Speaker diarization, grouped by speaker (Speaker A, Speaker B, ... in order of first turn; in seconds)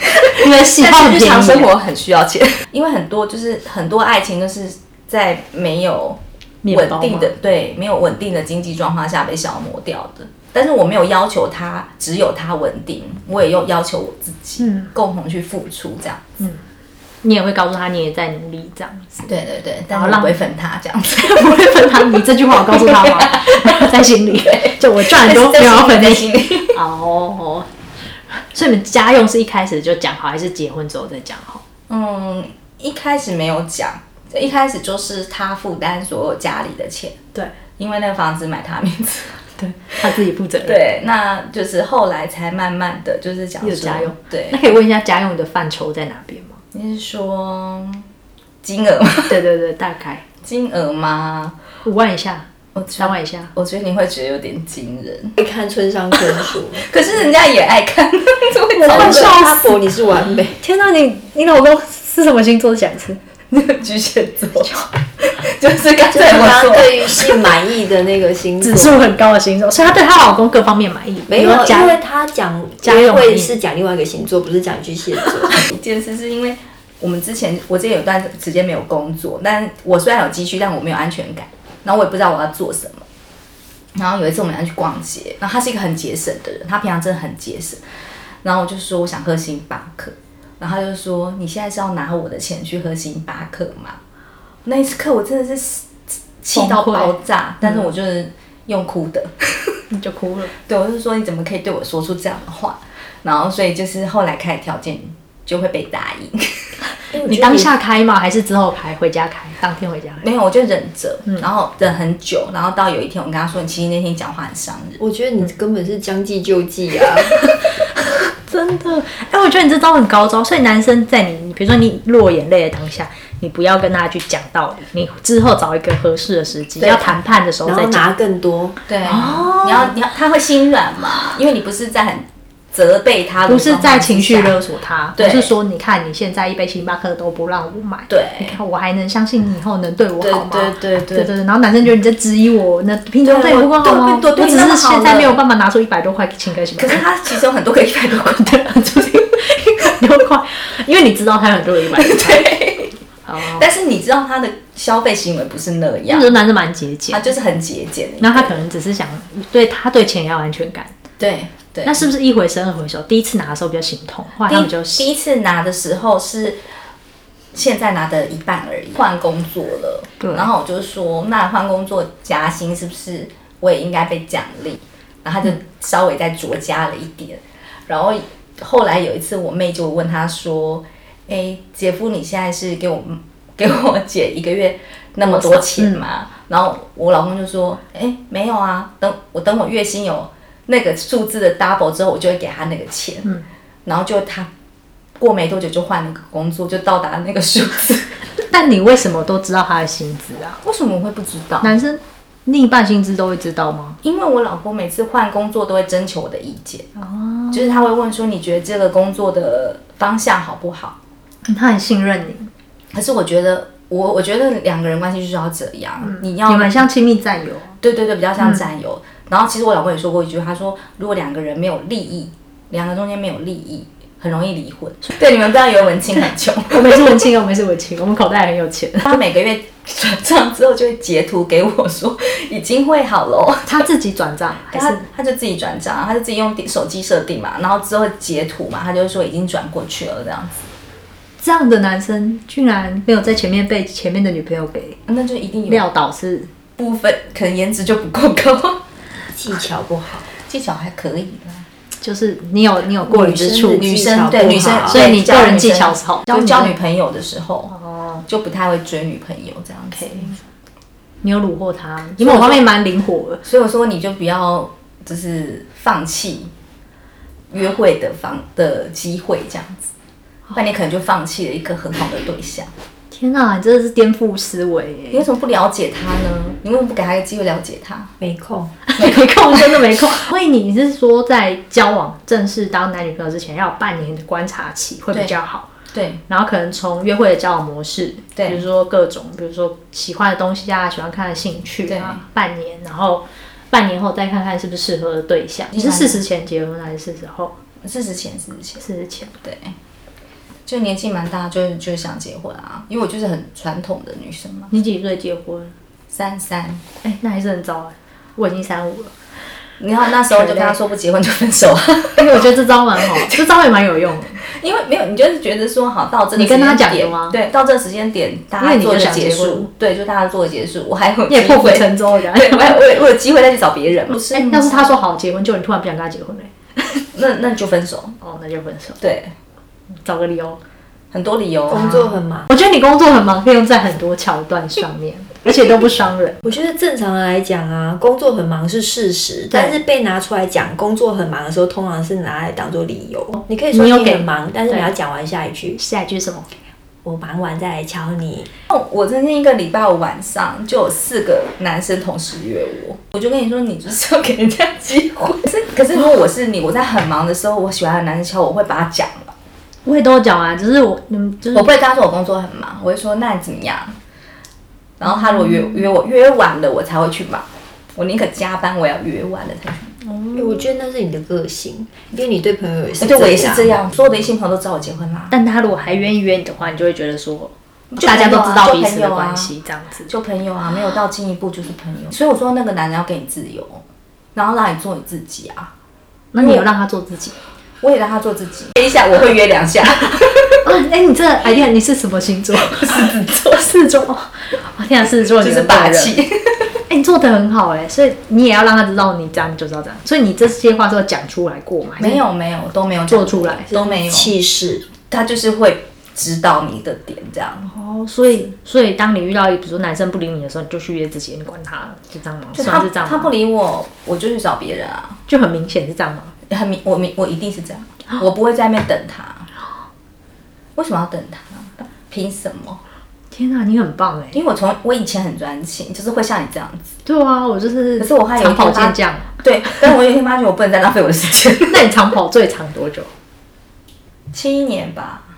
Speaker A: 0.2-1.7, 6.6-7.3, 14.6-14.9, 17.2-19.3, 19.9-20.4, 21.2-27.7, 28.5-31.6, 39.6-40.8, 43.6-46.6, 49.2-50.2, 51.8-53.5, 58.8-59.8, 60.6-63.2, 64.5-64.9, 68.6-72.0, 72.8-73.5, 96.5-97.1, 99.9-100.5, 107.2-110.2, 117.3-117.7, 118.4-128.1, 129.0-129.9, 133.5-147.0, 148.4-152.6, 153.2-153.7, 156.1-157.2, 158.2-160.9, 161.8-165.1, 170.2-170.5, 185.2-186.0, 198.4-200.6, 201.6-204.0, 206.9-207.8, 211.4-212.5, 216.0-217.8, 226.7-229.2, 233.7-235.0, 241.4-245.0, 245.7-246.5, 252.0-256.8, 257.7-258.2, 259.9-260.4, 261.2-263.4, 273.1-275.3, 278.9-285.7, 286.3-297.5, 298.8-299.3, 304.7-305.7, 307.0-309.1, 310.3-310.8, 312.2-314.4, 316.3-317.4, 318.6-319.7, 321.3-322.8, 324.2-327.0, 328.2-329.0, 330.0-330.6, 332.5-336.4, 339.5-339.8, 343.7-344.9, 345.8-346.5, 359.9-361.7, 365.1-365.8, 370.0-370.7, 375.3-380.1, 386.3-387.3, 390.6-396.2, 396.9-402.2, 403.1-403.8, 407.7-413.3, 415.3-416.3, 423.3-424.4, 427.0-429.9, 431.7-433.1
Speaker B: 0.4-16.2, 19.3-26.8, 31.9-37.1, 37.8-39.4, 40.6-44.6, 46.7-48.0, 48.6-49.4, 50.4-51.5, 52.7-55.3, 56.8-59.4, 63.5-67.6, 75.5-83.0, 83.9-87.8, 88.4-94.0, 94.6-99.7, 100.7-106.7, 110.2-115.0, 126.8-127.1, 128.9-134.5, 135.2-135.5, 138.1-138.6, 140.2-141.3, 143.2-145.4, 146.8-149.4, 151.9-156.3, 157.1-158.6, 161.2-162.1, 164.4-166.6, 167.5-193.3, 193.8-194.5, 195.2-198.2, 200.6-201.8, 204.0-206.9, 207.5-210.9, 212.9-216.8, 217.8-227.1, 229.1-233.8, 234.7-240.7, 245.1-245.8, 246.8-248.8, 250.3-251.7, 253.8-257.7, 258.3-260.4, 262.2-262.6, 263.4-266.5, 267.5-269.9, 270.5-272.7, 275.1-278.1, 279.0-279.8, 285.9-286.2, 288.4-288.6, 291.9-292.2, 295.7-296.2, 297.8-298.8, 299.4-299.7, 300.6-304.7, 306.1-306.8, 309.8-312.3, 314.4-324.9, 327.1-328.2, 329.0-329.3, 331.1-332.2, 348.7-359.3, 361.5-363.9, 365.0-369.9, 373.0-375.4, 377.9-379.5, 380.1-383.8, 384.3-385.7, 386.4-386.7, 387.8-390.6, 392.7-393.7, 395.4-396.6, 402.0-404.3, 405.1-407.7, 412.5-415.2, 416.5-419.5, 420.8-422.8, 424.3-426.9, 428.0-431.8, 434.3-435.2
Speaker C: 55.4-56.9, 58.8-60.6, 66.1-69.0, 71.3-75.7, 107.1-107.7, 115.0-117.4, 127.6-128.8, 249.3-250.2, 253.1-255.0, 278.2-278.7, 331.7-332.5, 336.4-345.8, 347.0-348.5, 370.3-373.8, 403.7-404.9